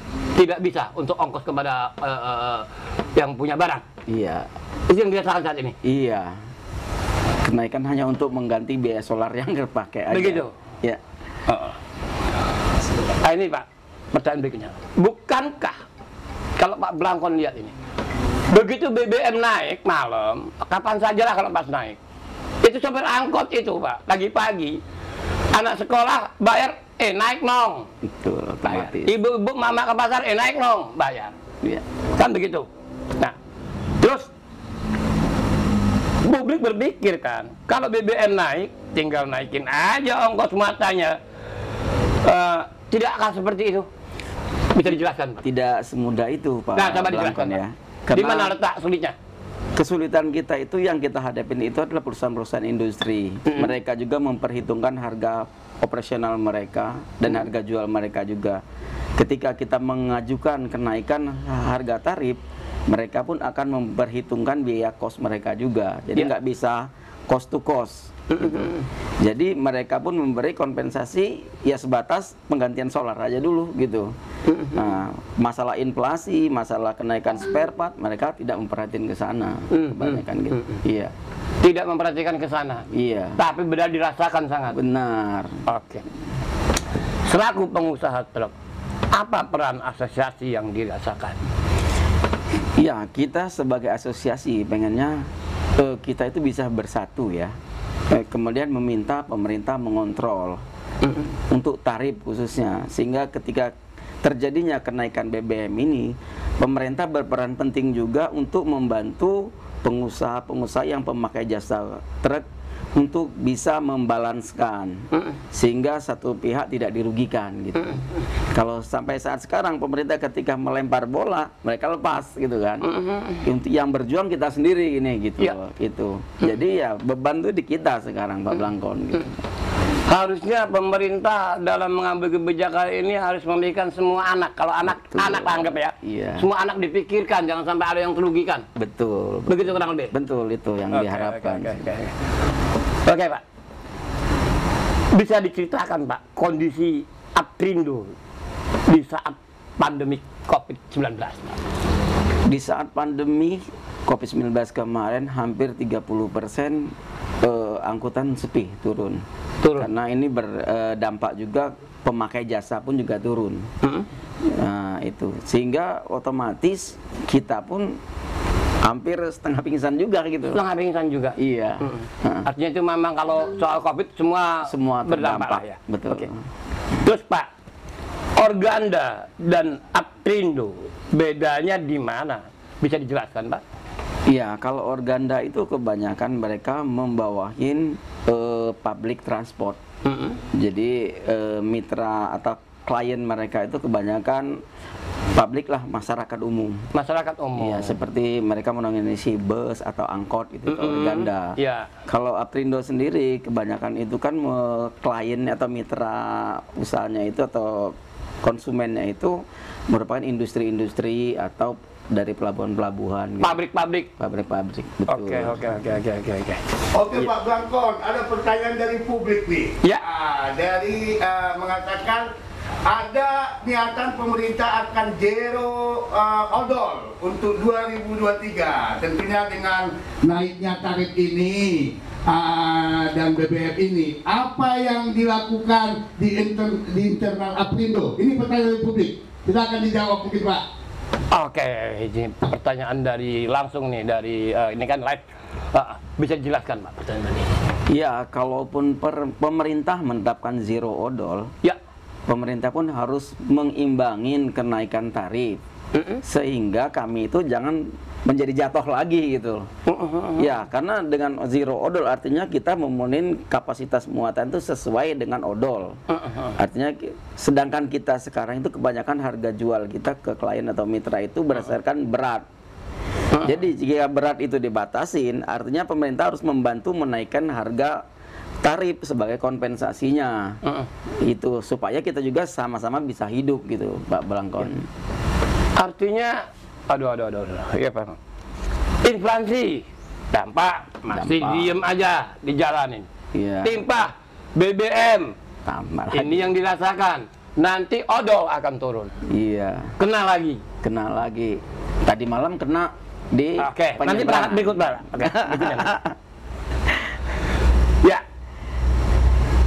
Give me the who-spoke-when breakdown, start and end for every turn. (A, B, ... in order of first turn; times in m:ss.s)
0:00.3-0:03.8 A
0:04.1-0:04.5 B
0:04.9-0:05.8 A
0:05.8-0:06.4 B
0:07.4-0:11.0 B
0:10.1-0:10.5 A
0:11.5-0:11.8 A
0:12.9-0:15.8 A
0:16.6-0:17.7 A
0:18.5-0:22.0 A
0:22.6-0:24.8 A
0:25.5-0:27.9 A
0:28.0-0:29.1 B
0:28.6-0:31.4 A
0:32.2-0:33.4 A
0:34.0-0:34.3 A
0:36.2-0:41.2 A
0:42.2-0:43.9 A
0:44.7-0:45.4 A
0:45.4-0:48.5 B
0:46.8-0:49.2 A
0:49.8-0:58.6 B
0:53.5-0:53.7 A
0:59.2-1:14.1 B
1:08.3-1:08.8 A
1:14.4-1:14.9 A
1:14.7-1:21.1 B
1:19.7-1:20.8 A
1:21.6-1:24.8 A
1:22.9-1:23.4 B
1:24.7-1:25.6 B
1:25.7-1:26.0 A
1:27.2-1:28.5 A
1:29.1-1:31.4 A
1:32.8-1:37.5 B
1:38.1-1:40.6 B
1:41.5-1:58.0 B
1:58.5-2:09.4 B
2:02.8-2:03.4 A
2:10.0-2:18.6 A
2:14.9-2:16.5 B
2:18.8-2:21.9 B
2:19.5-2:20.1 A
2:20.9-2:22.3 A
2:23.0-2:23.4 A
2:25.1-2:28.1 A
2:28.9-2:31.6 A
2:32.5-2:39.2 B
2:39.6-2:39.9 A
2:39.8-2:43.7 B
2:43.8-2:44.1 A
2:44.4-2:48.0 B
2:48.8-2:50.6 B
2:50.5-2:56.3 A
2:51.4-2:52.5 B
2:54.6-2:56.4 B
2:57.0-2:57.5 A
2:58.4-3:03.6 A
3:04.3-3:09.8 B
3:10.0-3:10.4 A
3:10.5-3:14.6 B
3:15.4-3:16.9 B
3:16.9-3:18.0 A
3:17.6-3:33.6 B
3:20.7-3:22.0 A
3:33.4-3:34.1 A
3:34.2-3:35.7 B
3:35.1-3:37.3 A
3:36.9-3:42.3 C
3:42.8-4:00.6 C
4:01.3-4:07.5 A
4:07.9-4:11.5 B
4:12.3-4:15.6 B
4:16.0-4:16.2 A
4:16.2-4:19.7 B
4:19.9-4:20.6 A
4:20.4-4:32.4 B
4:26.1-4:26.6 A
4:33.3-4:38.0 B
4:38.6-4:40.6 B
4:41.2-4:44.9 B
4:45.8-4:48.2 A
4:49.0-4:53.1 A
4:51.1-4:51.8 B
4:53.3-4:53.8 B
4:53.6-4:55.4 A
4:55.6-4:56.5 B
4:56.1-4:59.2 A
4:59.2-5:00.0 B
5:00.0-5:00.6 A
5:00.8-5:06.1 B
5:03.6-5:06.0 A